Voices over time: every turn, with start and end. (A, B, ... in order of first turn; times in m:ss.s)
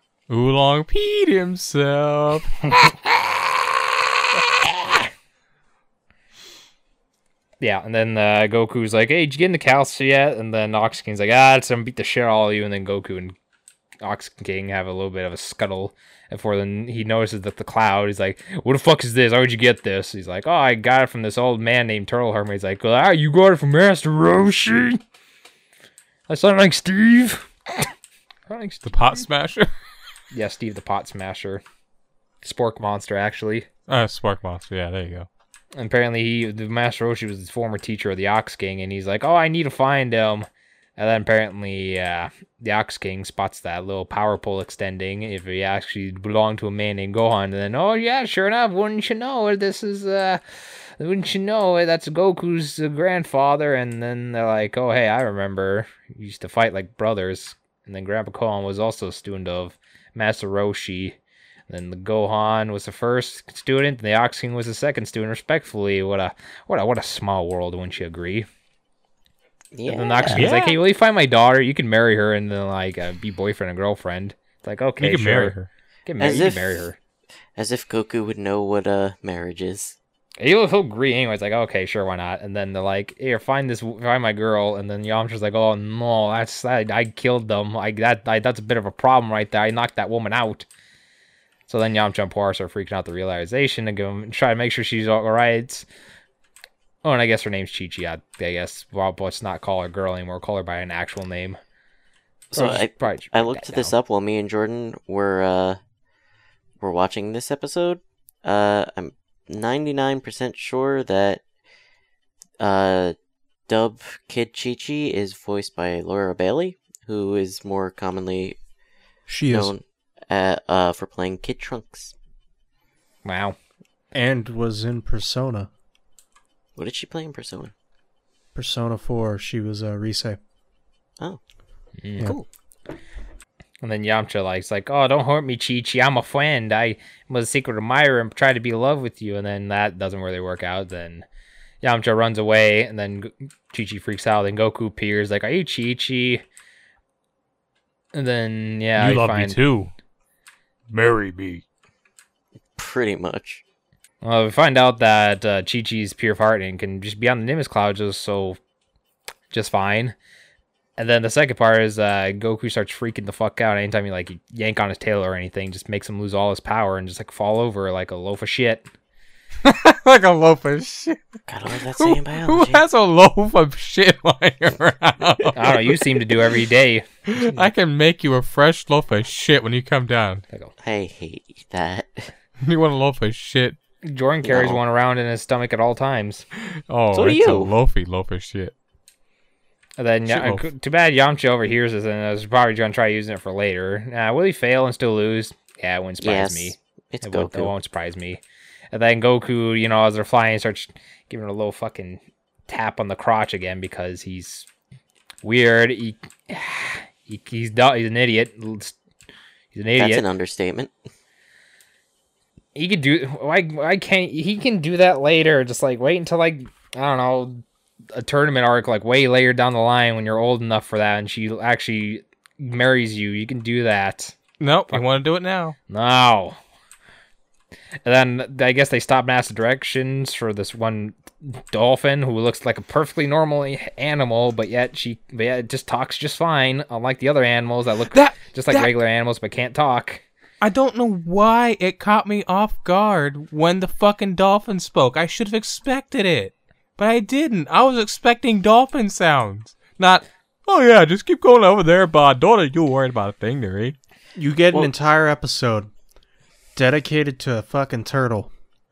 0:00.3-0:02.6 A
0:02.7-0:03.5 B
0:04.3-0:05.1 B
0:07.6-0:13.3 B
0:14.0-0:25.0 B
0:26.3-0:27.9 B
0:28.5-0:29.2 B
0:28.8-0:29.7 A
0:30.3-0:31.6 B
0:32.4-0:33.7 B
0:33.9-0:35.3 A
0:35.7-1:01.2 B
1:01.7-1:08.5 B
1:09.7-1:10.5 C
1:09.9-1:17.0 B
1:10.3-1:10.8 A
1:15.0-1:15.7 A
1:16.2-1:16.8 C
1:17.6-1:20.0 C
1:20.4-1:30.6 B
1:31.7-1:35.8 B
1:37.0-1:41.6 B
1:42.5-1:45.8 C
1:42.5-1:43.9 B
1:46.8-1:51.4 C
1:52.6-1:53.2 C
1:53.7-1:58.6 C
1:59.3-1:59.7 D
1:59.5-2:02.1 C
2:03.2-2:03.6 B
2:04.1-2:05.7 D
2:06.8-2:07.7 C
2:08.5-2:10.4 D
2:12.0-2:12.3 B
2:12.2-2:12.4 C
2:13.8-2:21.2 B
2:21.8-2:26.4 B
2:28.1-2:29.6 B
2:29.0-2:29.9 A
2:30.9-2:31.6 A
2:32.8-2:33.6 C
2:34.2-2:38.6 B
2:39.5-2:40.2 B
2:41.0-2:48.8 B
2:49.6-2:56.0 A
2:51.5-2:52.8 C
2:55.5-2:57.7 B
2:57.3-3:00.4 A
3:00.8-3:02.3 C
3:02.6-3:03.8 A
3:04.0-3:06.4 B
3:04.4-3:04.8 C
3:06.8-3:08.7 A
3:07.1-3:07.7 C
3:10.0-3:24.7 B
3:10.3-3:10.6 A
3:16.2-3:17.7 C
3:25.4-3:29.0 B
3:29.7-3:30.2 B
3:30.0-3:30.9 C
3:32.7-3:37.6 B
3:38.1-3:44.4 B
3:44.6-3:45.8 A
3:45.9-3:46.6 B
3:48.0-4:00.2 B
3:58.1-3:58.9 A
4:00.6-4:14.0 A
4:14.3-4:15.9 D
4:16.7-4:18.5 D